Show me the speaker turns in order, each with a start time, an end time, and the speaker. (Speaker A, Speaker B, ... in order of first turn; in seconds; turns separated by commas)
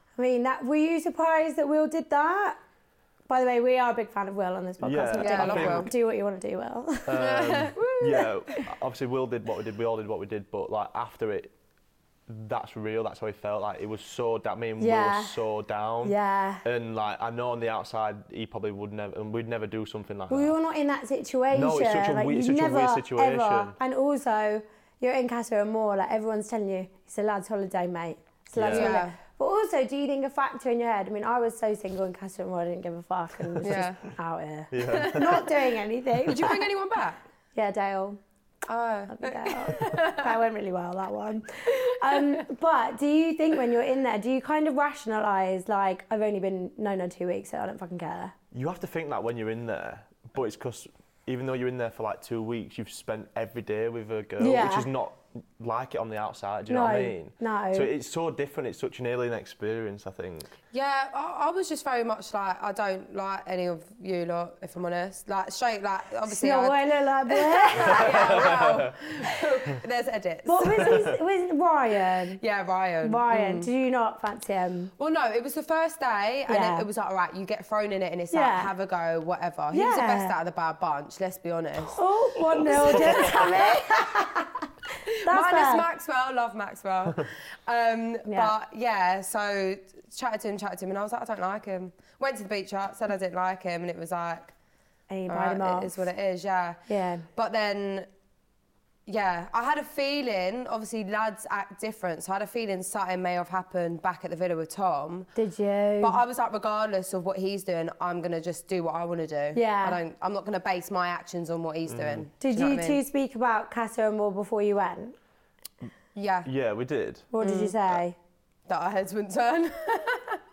Speaker A: 0.1-2.6, Speaker A: 3.3-7.2, Speaker B: 4.8-5.9, Speaker C: 5.2-5.9, Speaker B: 7.0-11.5, Speaker C: 7.2-8.3, Speaker B: 12.3-20.5, Speaker A: 14.8-15.4, Speaker A: 16.0-16.6, Speaker A: 20.3-36.7, Speaker B: 21.5-23.8, Speaker B: 28.5-29.0, Speaker C: 28.6-29.1, Speaker C: 33.6-34.0, Speaker B: 34.7-35.5, Speaker C: 34.9-35.5, Speaker C: 36.2-37.2, Speaker A: 37.5-38.2, Speaker C: 38.7-40.3, Speaker A: 39.1-48.3, Speaker C: 42.1-42.4, Speaker B: 48.5-60.5, Speaker A: 54.4-54.9, Speaker A: 56.7-57.9, Speaker C: 60.7-70.9, Speaker A: 66.2-68.5, Speaker B: 67.9-68.9, Speaker A: 70.5-72.4, Speaker B: 70.8-71.1, Speaker C: 72.4-73.7, Speaker A: 73.0-74.9, Speaker C: 75.0-82.0, Speaker A: 76.5-76.8, Speaker A: 78.3-78.7, Speaker A: 79.7-80.3, Speaker A: 81.8-85.9, Speaker C: 82.5-83.5, Speaker B: 82.7-83.4, Speaker C: 85.1-94.5, Speaker A: 88.2-88.5, Speaker A: 95.1-96.1, Speaker C: 95.3-96.8, Speaker A: 96.9-97.2, Speaker C: 97.3-98.1, Speaker C: 99.0-105.3, Speaker A: 105.3-106.2, Speaker C: 106.0-113.0, Speaker A: 109.5-110.0, Speaker B: 111.9-112.2, Speaker A: 112.4-115.2, Speaker C: 116.1-116.5, Speaker B: 116.4-117.3, Speaker A: 117.3-118.2, Speaker C: 117.4-117.7, Speaker C: 118.7-120.4